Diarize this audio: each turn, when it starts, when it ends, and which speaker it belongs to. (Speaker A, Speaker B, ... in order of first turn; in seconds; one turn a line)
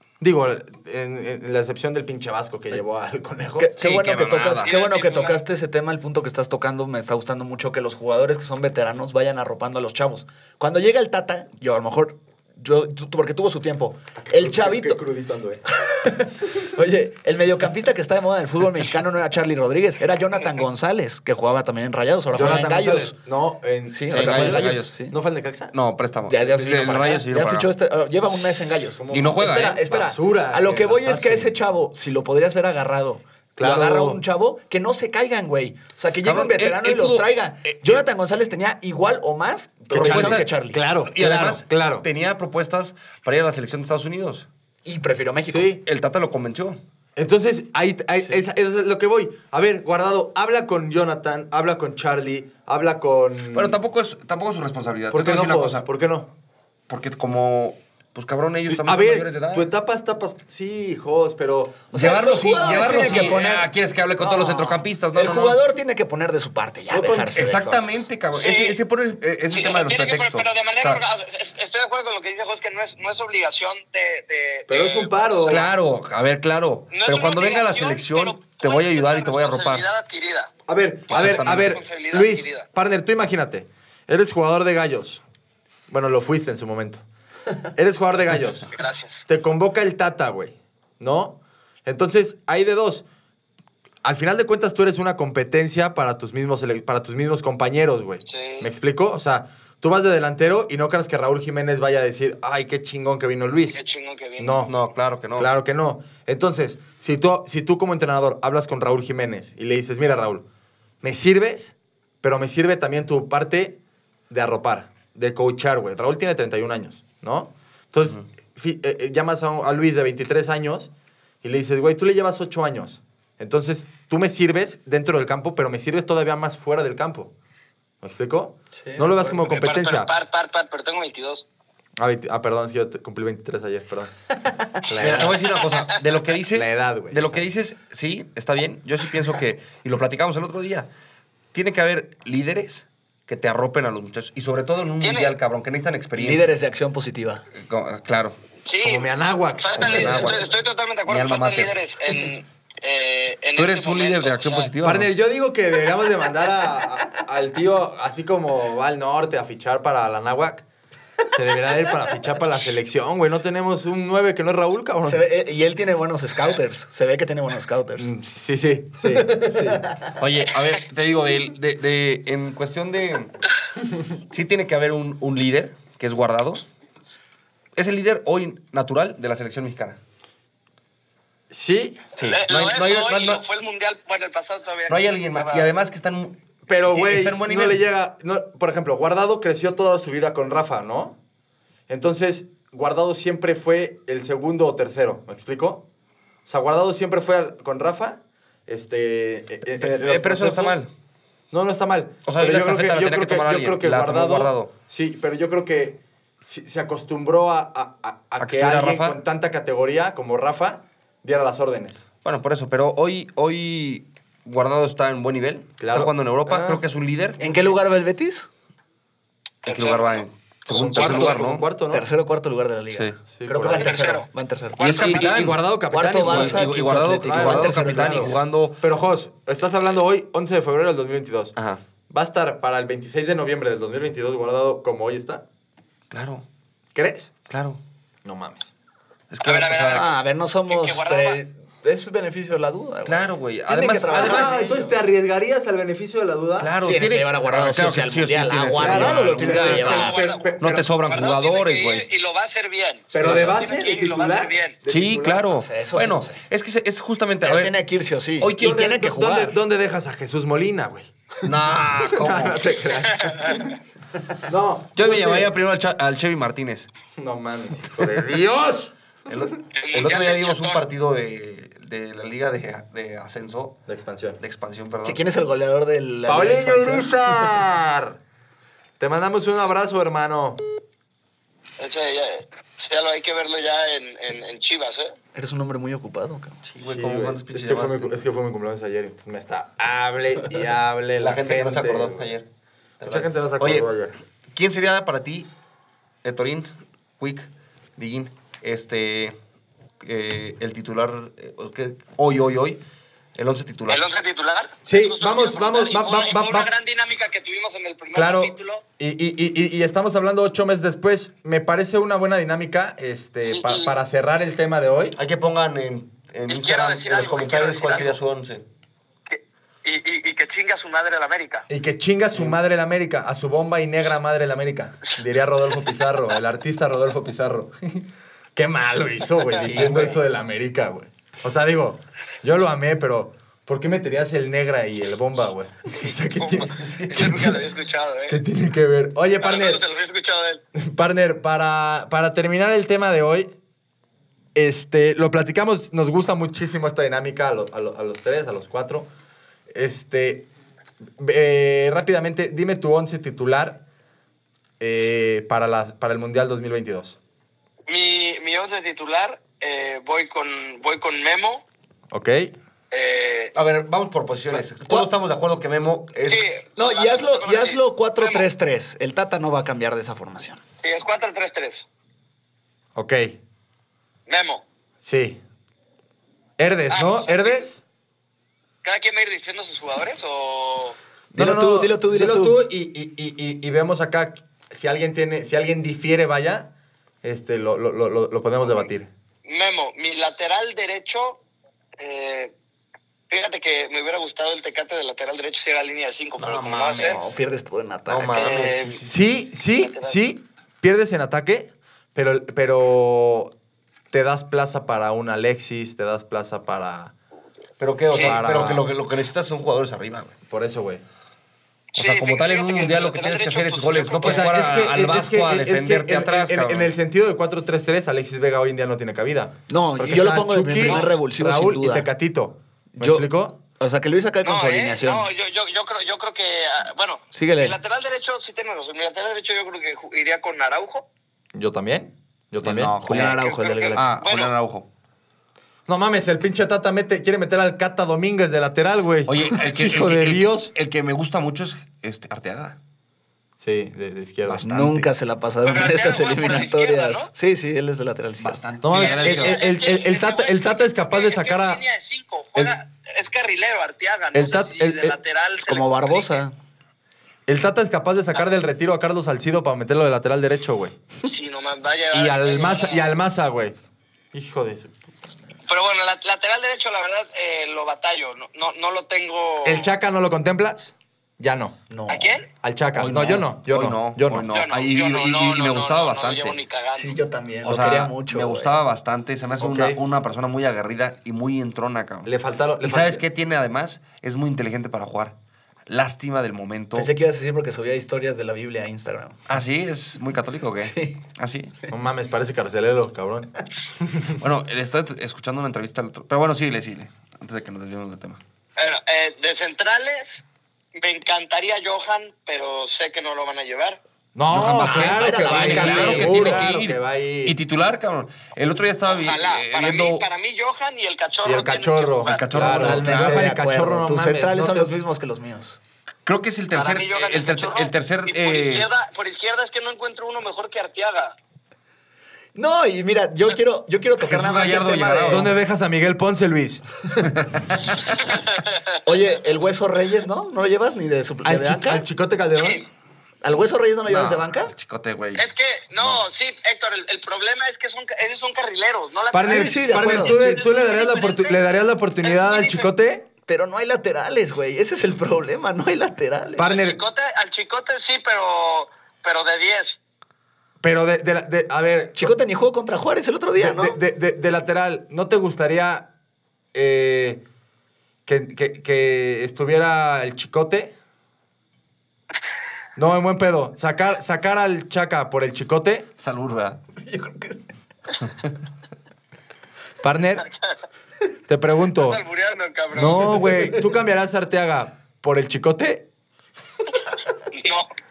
Speaker A: 0.2-3.7
Speaker B: 3.6-15.0
Speaker C: 3.8-4.7
Speaker D: 4.6-5.4
Speaker A: 14.2-15.6
Speaker B: 15.7-23.1
Speaker A: 22.3-25.7
Speaker B: 23.9-25.1
Speaker C: 24.1-24.9
Speaker C: 25.7-27.7
Speaker B: 26.2-40.8
Speaker A: 28.9-31.5
Speaker C: 29.1-29.8
Speaker A: 33.5-34.2
Speaker C: 36.2-38.0
Speaker C: 39.9-40.5
Speaker A: 39.9-42.0
Speaker C: 41.0-44.5
Speaker B: 44.8-45.8
Speaker A: 45.5-45.8
Speaker C: 45.8-46.8
Speaker A: 47.1-53.8
Speaker C: 53.5-55.8
Speaker A: 55.1-56.3
Speaker C: 56.9-59.7
Speaker A: 58.7-63.5
Speaker B: 61.9-68.0
Speaker C: 61.9-65.6
Speaker A: 66.9-67.3
Speaker C: 67.3-71.0
Speaker D: 68.3-68.8
Speaker D: 69.5-75.7
Speaker A: 74.7-75.6
Speaker C: 75.5-79.8
Speaker D: 76.9-80.5
Speaker A: 80.7-85.2
Speaker C: 81.1-81.8
Speaker D: 81.2-82.7
Speaker A: 85.9-87.0
Speaker A: 87.7-88.7
Speaker D: 88.7-89.2
Speaker A: 89.2-93.0
Speaker A: 94.0-103.8
Speaker D: 98.2-98.7
Speaker D: 103.7-104.7
Speaker A: 104.4-104.7
Speaker C: 104.7-105.5
Speaker A: 105.3-110.4
Speaker A: 111.0-113.8
Speaker A: 114.3-120.9
Speaker A: 121.4-127.3
Speaker A: 128.0-130.1
Speaker B: 128.8-129.3
Speaker D: 129.4-131.4
Speaker A: 132.0-134.1
Speaker A: 134.8-135.4
Speaker C: 134.9-140.9
Speaker D: 135.4-135.8
Speaker A: 136.5-137.4
Speaker C: 141.5-146.5
Speaker D: 145.0-145.3
Speaker B: 146.2-147.4
Speaker C: 147.6-148.3
Speaker D: 148.6-154.7
Speaker A: 148.8-150.5
Speaker C: 149.8-150.5
Speaker C: 151.1-151.7
Speaker C: 153.6-155.1
Speaker A: 154.8-160.6
Speaker A: 161.3-165.2
Speaker B: 165.0-168.1
Speaker A: 168.0-169.8
Speaker B: 169.1-170.1
Speaker C: 170.2-173.3
Speaker C: 174.3-176.6
Speaker C: 177.8-180.0
Speaker A: 181.5-182.0
Speaker C: 182.2-183.4
Speaker D: 182.2-185.7
Speaker C: 184.9-186.3
Speaker A: 186.7-191.2
Speaker C: 186.9-187.8
Speaker A: 191.9-195.8
Speaker A: 196.4-200.8
Speaker C: 199.8-200.9
Speaker A: 201.5-212.0
Speaker C: 202.2-204.7
Speaker C: 208.4-209.2
Speaker C: 212.2-217.7
Speaker A: 215.8-216.8
Speaker B: 217.4-218.5
Speaker D: 219.6-221.4
Speaker C: 219.7-221.6
Speaker A: 220.7-222.1
Speaker B: 221.9-224.8
Speaker C: 222.9-223.2
Speaker A: 223.3-223.9
Speaker D: 223.8-225.5
Speaker C: 224.8-225.6
Speaker A: 224.9-231.5
Speaker B: 225.9-228.4
Speaker C: 226.2-228.8
Speaker C: 231.6-231.8
Speaker A: 232.1-235.4
Speaker C: 236.1-236.4
Speaker A: 236.9-237.3
Speaker C: 237.5-237.8
Speaker A: 238.2-238.7
Speaker C: 239.3-240.1
Speaker D: 239.4-240.1
Speaker B: 239.9-244.9
Speaker D: 240.7-241.4
Speaker C: 243.1-244.5
Speaker A: 243.7-246.7
Speaker C: 246.6-250.1
Speaker B: 246.8-250.1
Speaker A: 248.8-250.9
Speaker D: 249.7-250.5
Speaker C: 250.6-252.1
Speaker D: 251.0-254.8
Speaker A: 253.1-255.5
Speaker C: 253.2-253.6
Speaker C: 254.9-257.7
Speaker B: 255.5-256.4
Speaker B: 257.4-259.6
Speaker C: 258.4-258.9
Speaker A: 258.6-261.1
Speaker C: 261.4-262.7
Speaker A: 262.1-263.8
Speaker D: 263.2-263.7
Speaker A: 264.4-265.5
Speaker C: 264.9-266.9
Speaker A: 267.2-268.9
Speaker C: 269.3-273.8
Speaker D: 269.7-270.8
Speaker A: 273.9-274.4
Speaker C: 274.4-275.2
Speaker B: 275.0-277.5
Speaker A: 276.2-278.2
Speaker A: 279.0-280.6
Speaker D: 281.8-285.2
Speaker B: 285.3-286.6
Speaker C: 286.6-288.1
Speaker A: 286.8-292.2
Speaker C: 291.2-292.5
Speaker C: 293.0-293.9
Speaker A: 293.0-294.2
Speaker C: 294.5-295.5
Speaker C: 296.2-299.3
Speaker C: 300.0-302.8
Speaker C: 303.3-304.0
Speaker D: 303.9-308.8
Speaker A: 304.8-306.7
Speaker A: 308.1-315.2
Speaker D: 313.4-313.9
Speaker C: 315.1-318.6
Speaker D: 316.5-318.2
Speaker D: 319.3-321.7
Speaker A: 321.7-337.6
Speaker C: 322.3-322.6
Speaker C: 329.6-330.1
Speaker C: 336.5-337.2
Speaker D: 337.1-338.4
Speaker A: 338.3-339.8
Speaker D: 339.4-340.6
Speaker A: 340.7-343.5
Speaker A: 344.5-349.1
Speaker A: 349.7-350.5
Speaker A: 351.2-353.8
Speaker A: 354.8-357.2
Speaker D: 357.9-361.6
Speaker A: 362.1-362.5
Speaker D: 362.9-363.5
Speaker C: 363.5-366.6
Speaker D: 366.3-368.5
Speaker B: 366.8-370.6
Speaker D: 370.8-371.8
Speaker A: 372.9-373.4
Speaker D: 374.3-374.6
Speaker A: 375.0-375.4
Speaker A: 376.6-377.8
Speaker D: 376.9-377.6
Speaker D: 378.8-381.0
Speaker B: 381.3-382.6
Speaker A: 381.3-386.7
Speaker A: 387.2-389.1
Speaker D: 389.4-391.4
Speaker D: 392.0-392.5
Speaker D: 393.3-397.2
Speaker C: 396.4-397.4
Speaker B: 396.9-398.6
Speaker C: 398.1-399.1
Speaker D: 398.3-399.1
Speaker A: 399.0-403.5
Speaker D: 399.6-400.2
Speaker A: 404.1-407.1
Speaker C: 407.8-410.3
Speaker D: 408.1-408.4
Speaker A: 408.1-408.9
Speaker A: 410.5-411.0
Speaker D: 411.9-414.7
Speaker C: 411.9-416.9
Speaker A: 414.2-423.6
Speaker B: 419.7-422.1
Speaker D: 420.8-421.1
Speaker B: 423.0-423.3
Speaker B: 423.8-425.3
Speaker D: 424.4-431.1
Speaker B: 427.3-427.8
Speaker A: 431.5-432.9
Speaker C: 432.6-434.9
Speaker B: 433.0-434.1
Speaker D: 433.2-434.5
Speaker A: 435.9-440.7
Speaker C: 439.2-442.8
Speaker A: 443.6-444.8
Speaker C: 444.5-445.1
Speaker B: 444.5-448.6
Speaker D: 445.6-447.3
Speaker C: 448.4-449.6
Speaker A: 448.8-451.8
Speaker D: 448.9-456.4
Speaker A: 454.3-455.2
Speaker B: 455.7-456.5
Speaker A: 457.5-460.9
Speaker D: 461.2-463.1
Speaker A: 462.1-463.8
Speaker A: 464.3-464.9
Speaker D: 465.7-469.9
Speaker A: 469.6-471.8
Speaker B: 471.9-472.4
Speaker D: 472.1-472.4
Speaker A: 472.6-474.5
Speaker C: 472.9-476.6
Speaker D: 474.5-477.2
Speaker B: 476.9-478.7
Speaker C: 477.6-482.3
Speaker A: 479.6-480.0
Speaker A: 482.2-483.2
Speaker C: 482.8-485.3
Speaker C: 485.9-487.1
Speaker B: 486.9-489.4
Speaker C: 489.5-491.7
Speaker B: 490.8-491.2
Speaker A: 491.9-494.4
Speaker C: 494.4-498.4
Speaker D: 498.8-504.0
Speaker A: 504.3-507.6
Speaker C: 504.5-510.2
Speaker B: 504.6-506.7
Speaker D: 509.1-512.5
Speaker A: 511.4-514.9
Speaker C: 512.2-513.5
Speaker B: 512.5-515.8
Speaker C: 516.2-518.9
Speaker D: 516.7-521.4
Speaker B: 522.5-525.5
Speaker C: 524.2-525.5
Speaker A: 525.3-526.9
Speaker C: 527.2-527.6
Speaker D: 528.1-529.0
Speaker B: 529.0-532.0
Speaker A: 531.4-532.8
Speaker D: 532.5-532.9
Speaker B: 533.4-534.7
Speaker C: 534.1-535.4
Speaker D: 535.3-541.6
Speaker A: 539.3-543.3
Speaker B: 539.4-540.4
Speaker D: 542.2-542.9
Speaker B: 543.5-546.7
Speaker A: 546.5-547.0
Speaker D: 546.6-550.0
Speaker A: 550.8-552.3
Speaker B: 552.2-554.0
Speaker A: 553.5-556.1
Speaker A: 556.7-557.4
Speaker A: 558.2-560.9
Speaker A: 563.0-566.1
Speaker C: 566.2-566.8
Speaker B: 567.0-567.6
Speaker C: 568.2-568.5
Speaker A: 570.0-570.5
Speaker A: 571.5-572.2
Speaker D: 571.9-573.5
Speaker A: 572.9-576.1
Speaker D: 577.5-577.9